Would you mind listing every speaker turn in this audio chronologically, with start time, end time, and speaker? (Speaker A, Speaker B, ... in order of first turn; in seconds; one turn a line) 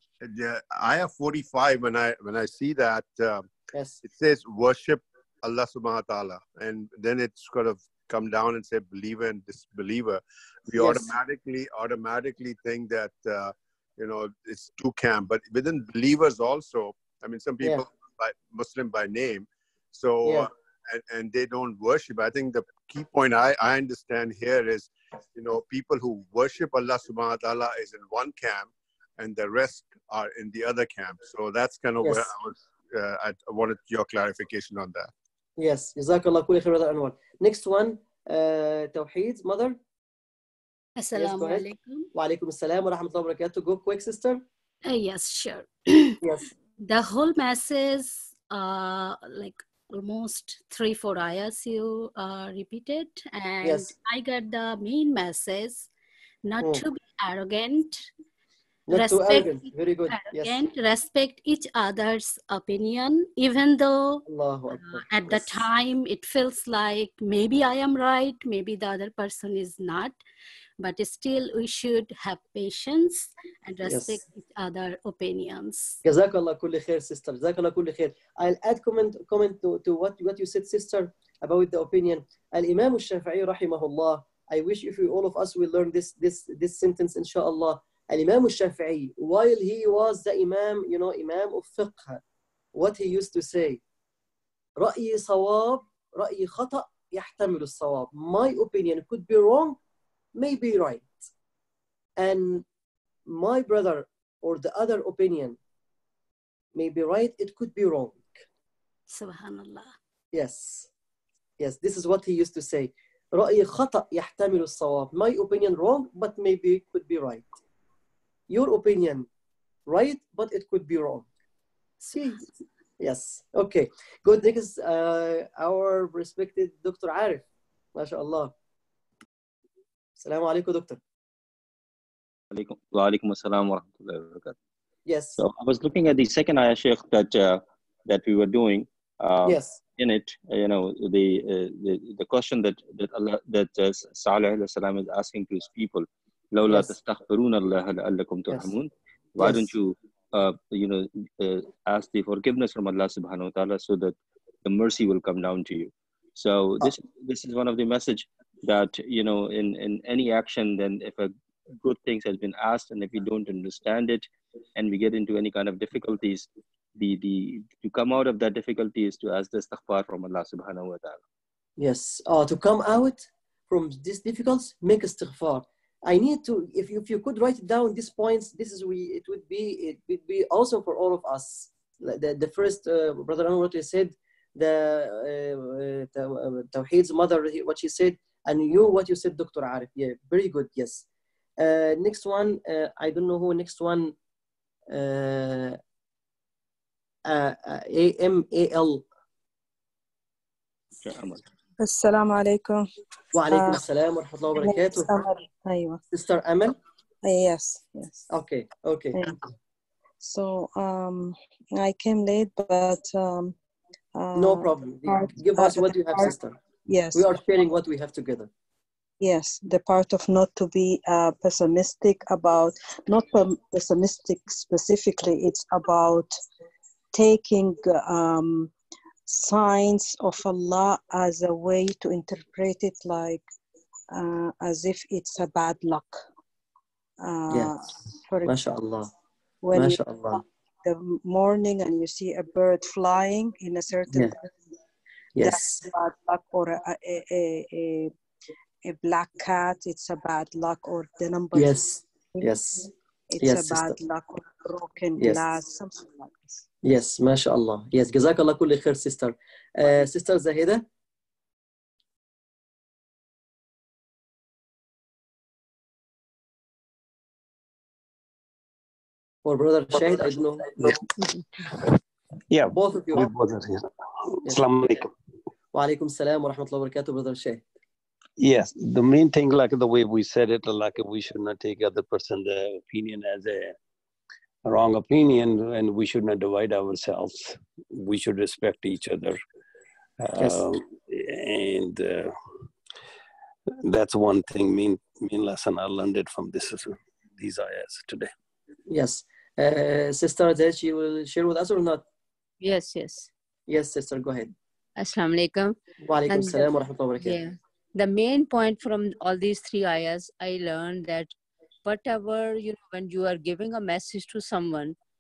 Speaker A: 0.2-3.5
Speaker B: 3.7-4.0
Speaker A: 4.0-35.1
Speaker B: 10.8-11.1
Speaker B: 32.0-32.3
Speaker B: 35.6-39.8
Speaker C: 41.0-42.1
Speaker B: 41.1-44.4
Speaker C: 44.9-46.2
Speaker B: 46.2-46.5
Speaker C: 46.8-55.9
Speaker B: 53.6-53.9
Speaker C: 56.4-58.1
Speaker B: 58.9-60.5
Speaker C: 58.9-64.2
Speaker B: 64.3-65.7
Speaker C: 64.8-70.2
Speaker C: 70.8-76.0
Speaker B: 73.8-74.2
Speaker B: 76.0-92.2
Speaker B: 92.7-93.8
Speaker B: 94.8-99.8
Speaker B: 100.4-101.2
Speaker B: 102.2-102.7
Speaker B: 103.3-105.6
Speaker B: 106.8-108.4
Speaker C: 109.1-109.9
Speaker B: 110.3-110.9
Speaker B: 111.6-117.5
Speaker B: 118.5-119.3
Speaker B: 119.9-121.3
Speaker B: 122.0-127.4
Speaker B: 128.0-128.5
Speaker B: 130.2-131.0
Speaker D: 132.5-134.6
Speaker B: 135.1-135.4
Speaker D: 135.4-171.2
Speaker B: 139.4-139.8
Speaker B: 146.7-146.9
Speaker B: 149.4-149.7
Speaker B: 171.8-191.1
Speaker B: 191.6-194.2
Speaker B: 194.9-195.8
Speaker B: 197.3-199.1
Speaker D: 201.0-201.4
Speaker E: 201.8-202.9
Speaker B: 203.3-205.1
Speaker E: 203.4-203.8
Speaker E: 204.6-206.0
Speaker B: 206.1-206.8
Speaker E: 207.2-208.3
Speaker B: 208.3-209.3
Speaker E: 209.1-209.4
Speaker E: 210.2-213.6
Speaker E: 214.2-216.3
Speaker B: 214.3-216.6
Speaker E: 216.9-217.4
Speaker B: 217.1-218.5
Speaker E: 219.2-226.4
Speaker E: 227.1-228.7
Speaker E: 229.3-233.5
Speaker E: 234.1-236.3
Speaker E: 237.2-238.6
Speaker B: 237.5-237.8
Speaker B: 238.4-239.1
Speaker E: 239.6-244.5
Speaker B: 239.7-240.4
Speaker B: 245.3-245.8
Speaker E: 245.4-248.1
Speaker E: 248.8-252.6
Speaker B: 251.5-252.9
Speaker E: 253.3-256.7
Speaker B: 253.4-254.0
Speaker B: 255.2-255.4
Speaker B: 256.8-260.8
Speaker B: 269.4-271.0
Speaker F: 272.5-275.1
Speaker B: 272.7-273.3
Speaker B: 274.5-275.0
Speaker B: 275.7-277.6
Speaker F: 278.4-283.8
Speaker F: 284.7-289.4
Speaker F: 290.2-292.3
Speaker B: 290.4-290.7
Speaker F: 293.8-298.3
Speaker B: 298.9-302.0
Speaker G: 302.6-303.3
Speaker B: 303.7-304.5
Speaker G: 305.0-305.8
Speaker B: 306.0-307.4
Speaker G: 306.3-311.3
Speaker G: 311.9-315.0